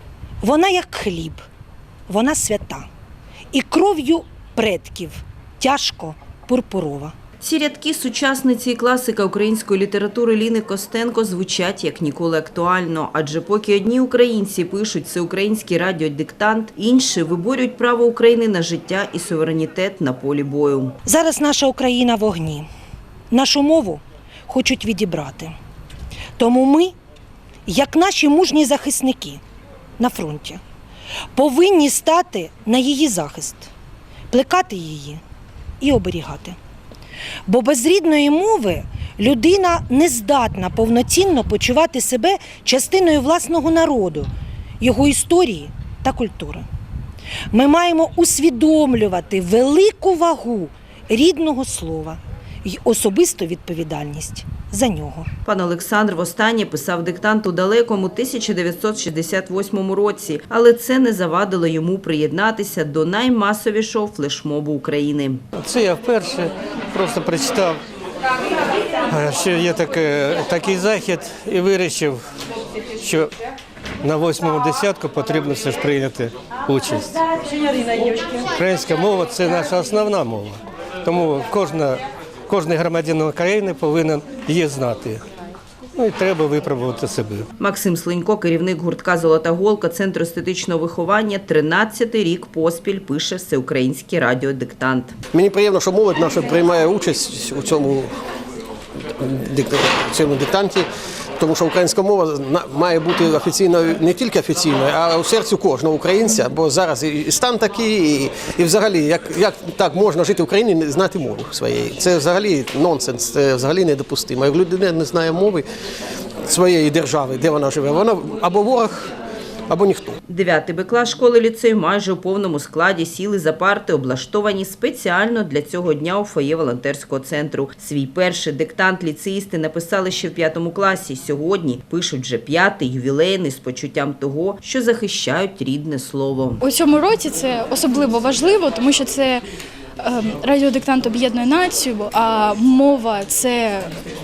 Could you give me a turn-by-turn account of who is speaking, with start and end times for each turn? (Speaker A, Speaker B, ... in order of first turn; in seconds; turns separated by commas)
Speaker A: 0.4-1.4, Speaker A: 2.1-2.9, Speaker A: 3.5-7.1, Speaker B: 7.4-20.9, Speaker A: 21.1-22.7, Speaker A: 23.3-25.5, Speaker A: 26.4-26.9, Speaker A: 27.6-29.4, Speaker A: 30.0-30.6, Speaker A: 31.3-33.7, Speaker A: 34.3-35.2, Speaker A: 35.8-36.6, Speaker A: 37.5-44.3, Speaker A: 44.8-46.7, Speaker A: 47.5-55.3, Speaker B: 55.5-65.4, Speaker C: 65.6-67.8, Speaker C: 69.1-72.2, Speaker C: 73.0-73.3, Speaker C: 74.0-77.2, Speaker C: 78.5-85.2, Speaker C: 86.0-87.4, Speaker B: 87.6-95.1, Speaker D: 95.3-98.1, Speaker D: 99.2-100.8, Speaker D: 101.4-115.7, Speaker D: 116.5-119.1, Speaker D: 119.7-120.2, Speaker B: 120.3-136.6, Speaker E: 136.6-139.4, Speaker E: 140.0-143.9